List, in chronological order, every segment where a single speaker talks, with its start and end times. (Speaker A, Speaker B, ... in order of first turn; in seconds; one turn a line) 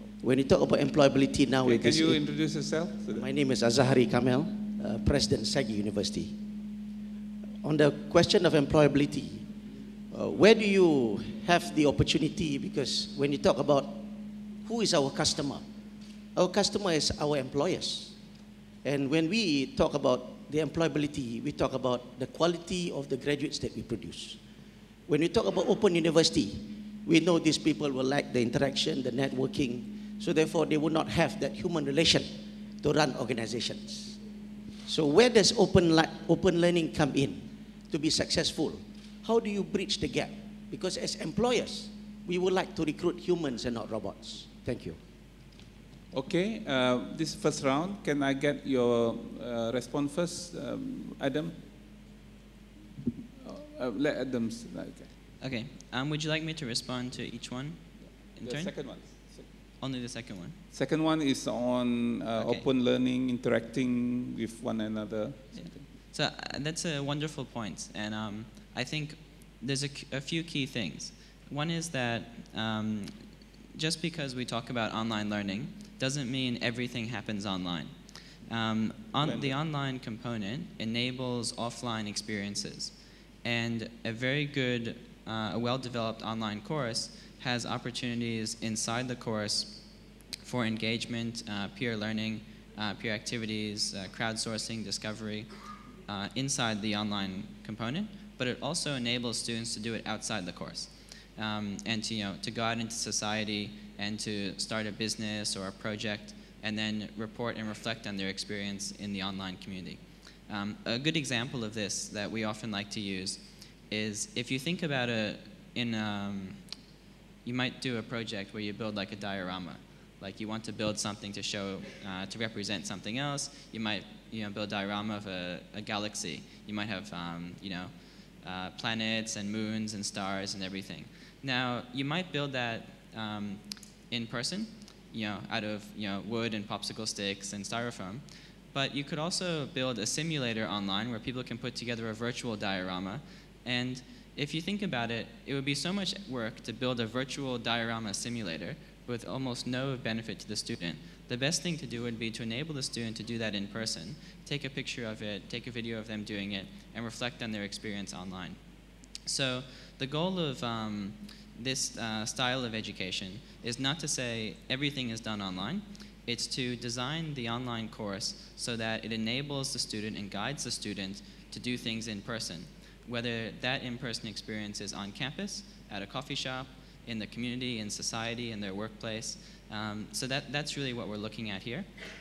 Speaker A: 0.2-6.4
Speaker B: 1.6-3.3
Speaker A: 7.6-9.5
Speaker A: 10.1-15.7
Speaker A: 16.4-18.2
Speaker A: 18.8-24.4
Speaker A: 25.1-34.2
Speaker A: 34.9-45.0
Speaker B: 46.1-51.6
Speaker B: 53.4-55.1
Speaker C: 55.4-59.1
Speaker B: 58.0-59.6
Speaker C: 59.8-60.6
Speaker B: 60.7-65.9
Speaker C: 62.4-62.7
Speaker C: 65.5-95.5
Speaker B: 79.2-79.6
Speaker C: 96.1-116.8
Speaker C: 117.4-181.9